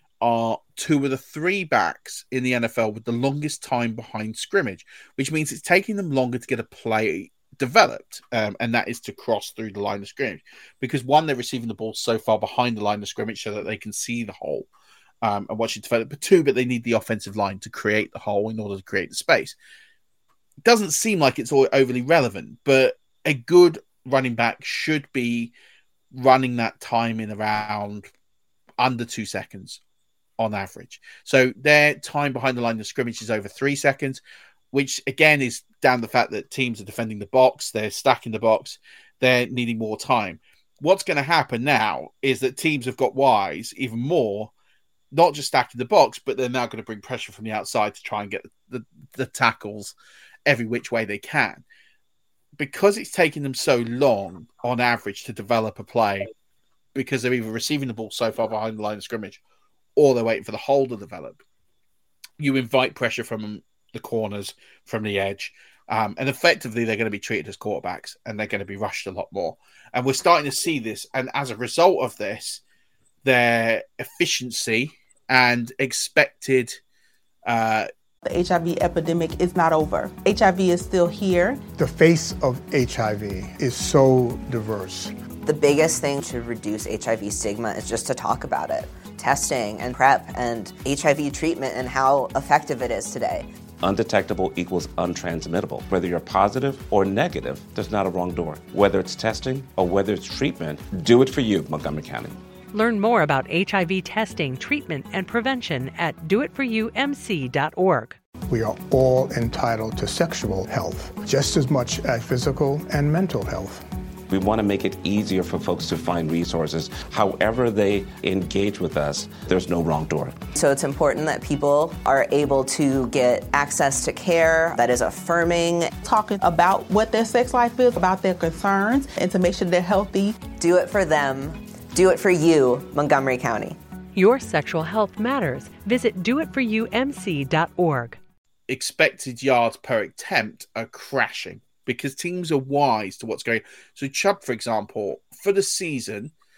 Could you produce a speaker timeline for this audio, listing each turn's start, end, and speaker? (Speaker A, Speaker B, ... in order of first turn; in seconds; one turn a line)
Speaker A: 0.2-14.7
Speaker A: 15.2-19.6
Speaker A: 20.6-25.5
Speaker A: 26.1-28.1
Speaker A: 28.8-29.8
Speaker A: 30.4-44.5
Speaker A: 45.1-49.9
Speaker A: 50.5-51.6
Speaker A: 52.6-56.3
Speaker A: 56.9-59.4
Speaker A: 60.0-61.4
Speaker A: 62.4-72.6
Speaker A: 73.2-76.8
Speaker A: 77.4-77.9
Speaker B: 78.2-81.6
Speaker C: 81.8-85.1
Speaker D: 85.4-93.5
Speaker E: 93.8-102.4
Speaker F: 102.7-108.2
Speaker C: 108.5-113.9
Speaker E: 114.3-120.4
Speaker D: 120.6-125.9
Speaker B: 126.0-130.4
Speaker D: 130.6-133.8
Speaker F: 134.1-138.2
Speaker A: 138.7-146.3